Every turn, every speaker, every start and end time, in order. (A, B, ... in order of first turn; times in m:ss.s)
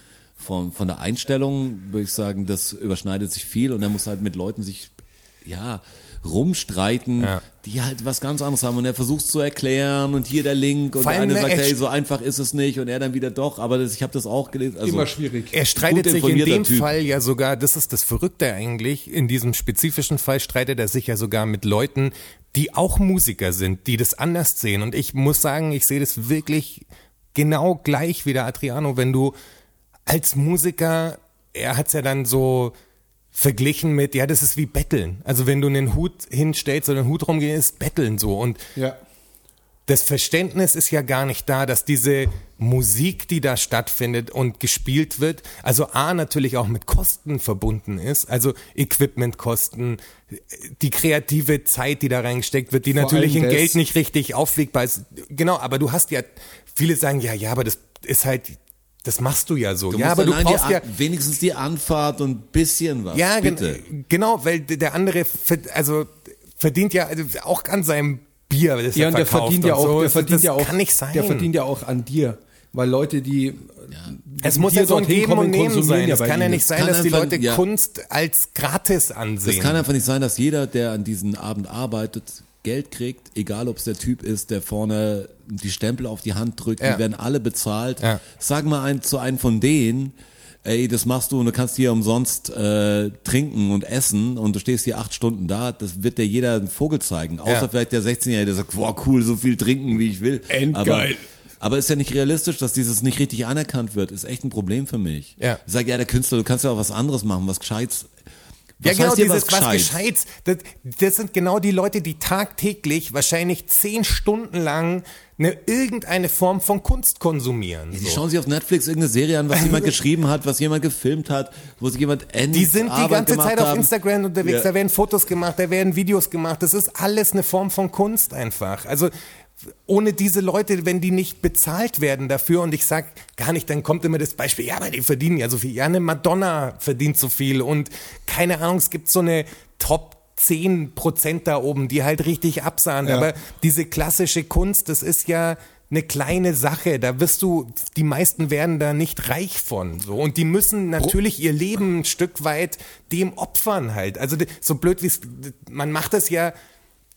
0:00.4-0:15.1 A
0:11.0-0:11.8 B
0:14.8-0:15.6 C
0:15.5-0:29.3 B
0:15.8-0:16.9 A
0:30.1-0:32.7 B
0:33.3-0:38.6 B
0:39.9-1:00.8 B
0:52.9-0:53.8 C
0:59.9-1:03.8 A
1:03.1-1:11.5 B
1:08.9-1:16.6 C
1:14.4-1:19.8 B
1:16.7-1:17.6 A
1:19.4-1:48.1 A
1:40.5-1:41.2 C
1:48.8-1:50.0 A
1:48.8-1:58.2 B
1:57.9-2:03.9 A
1:59.5-1:59.9 B
2:02.5-2:09.1 B
2:04.4-2:04.7 A
2:09.8-2:36.5 B
2:23.0-2:23.3 C